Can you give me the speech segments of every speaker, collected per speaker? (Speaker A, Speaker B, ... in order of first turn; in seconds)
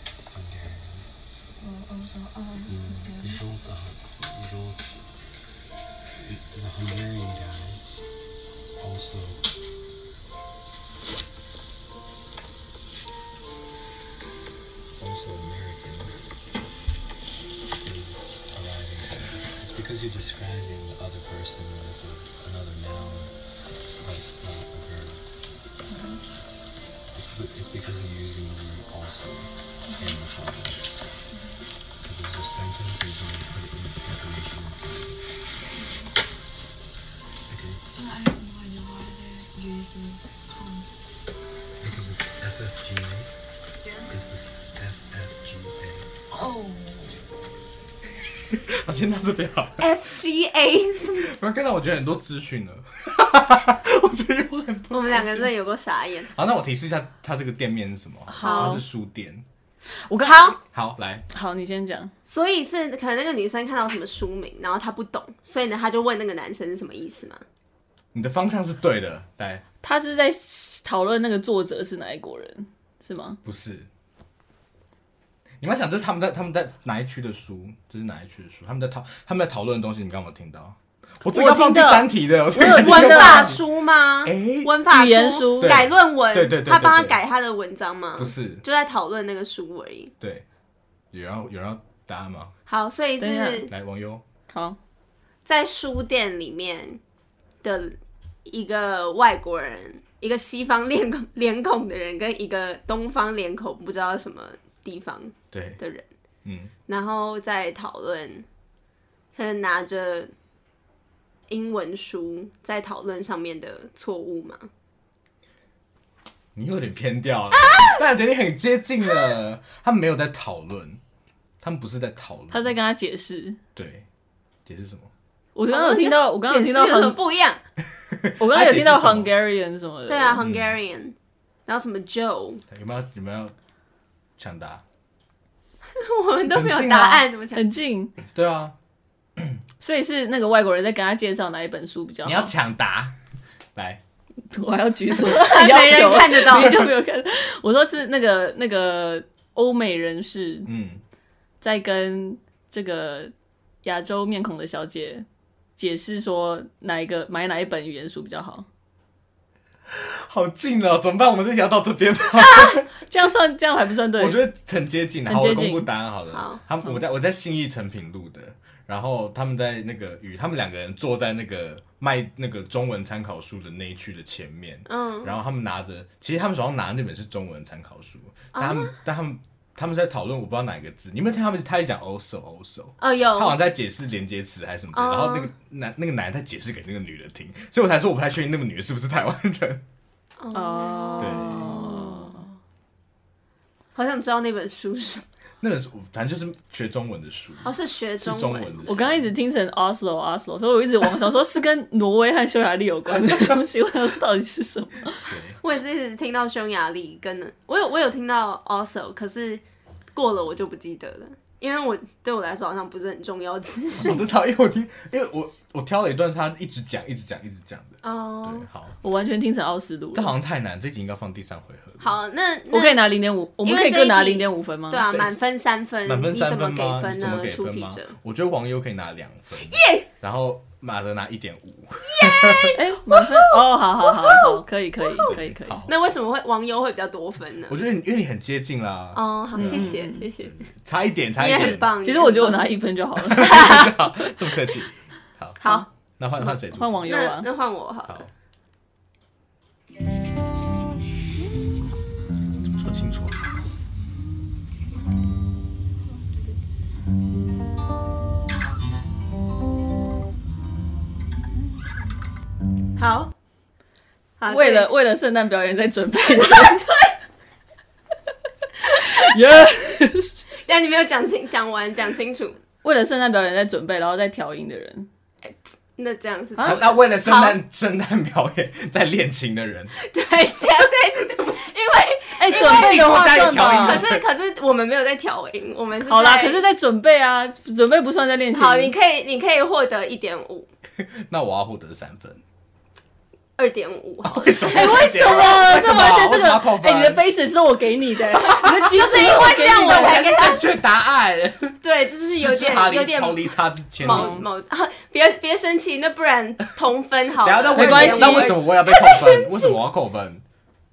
Speaker A: 0.3-1.1, 2.6-4.9, 6.2-7.8, 8.8-9.4, 15.0-16.1, 17.7-23.3, 23.9-25.2, 27.1-30.9, 32.0-35.3, 37.5-37.8, 41.8-43.3, 44.0-46.1
Speaker B: 1.6-3.5, 25.9-26.2, 29.8-30.2, 31.3-31.6, 35.7-36.1, 37.9-40.9, 46.3-47.3
Speaker C: 48.5-49.9, 51.2-55.5, 56.2-59.4, 60.7-61.2, 68.1-69.6, 73.4-73.9, 75.6-83.6, 84.2-84.7, 85.6-87.2, 88.2-88.6, 90.2-90.4, 91.1-92.5, 93.7-94.2, 105.5-105.8, 106.4-106.7, 116.5-121.0, 121.6-122.8, 123.8-124.0, 124.7-125.1, 128.1-129.3, 130.4-130.8, 132.7-133.5, 134.4-134.8, 136.5-137.2, 138.2-138.7, 142.2-143.1, 143.7-144.0, 150.7-151.0, 159.9-162.9, 164.2-189.8, 191.2-191.7, 195.6-199.3, 205.3-205.6, 214.0-219.0, 220.1-222.1, 226.0-232.8, 235.2-235.9, 237.7-239.9, 240.4-241.9, 243.3-245.6, 246.2-247.1, 252.6-253.4, 276.6-279.9, 282.5-284.2, 291.0-292.4, 294.2-297.2, 298.6-301.8, 302.3-304.4, 307.4-310.4
Speaker D: 49.8-51.4, 54.9-56.3, 58.4-58.8, 60.1-60.6, 62.2-67.4, 82.7-90.1, 92.7-93.7, 95.5-97.0, 97.6-106.1, 106.9-108.5, 109.3-110.3, 111.5-114.7, 125.7-127.6, 130.1-131.1, 131.7-132.6, 135.9-137.7, 145.1-146.8, 166.3-166.6, 174.9-175.3, 178.5-178.9, 183.0-183.6, 184.9-185.5, 190.4-192.5, 193.9-195.2, 197.6-198.9, 205.6-209.6, 210.1-214.2, 218.0-218.7, 222.0-223.0, 223.6-228.1, 229.7-230.1, 232.0-233.6, 234.1-235.3, 235.9-237.8, 239.1-240.7, 241.4-242.7, 245.6-245.9, 247.1-248.3, 263.0-263.3, 264.4-264.9, 266.4-267.1, 270.6-272.6, 275.4-277.6, 280.0-286.6, 288.5-290.7, 293.6-295.5, 298.5-300.7, 301.8-309.8
Speaker E: 58.3-58.8, 60.1-60.5, 61.3-62.1, 69.8-73.4, 81.3-83.5, 84.9-85.8, 93.2-93.7, 94.5-94.8, 122.5-123.6, 125.5-127.2, 128.4-130.4, 137.5-138.1, 139.8-142.5, 144.5-150.7, 151.6-153.3, 153.8-155.2, 155.8-158.7, 162.6-164.4, 165.3-165.9, 190.5-192.4, 198.9-205.3, 219.0-220.3, 222.7-225.0, 232.7-235.9, 239.6-240.2, 242.0-243.9, 246.6-247.5, 264.5-266.9, 268.8-270.4, 272.8-275.1, 276.6-276.9, 282.4-284.0, 286.1-288.9, 294.7-300.4, 304.0-304.4, 307.7-308.6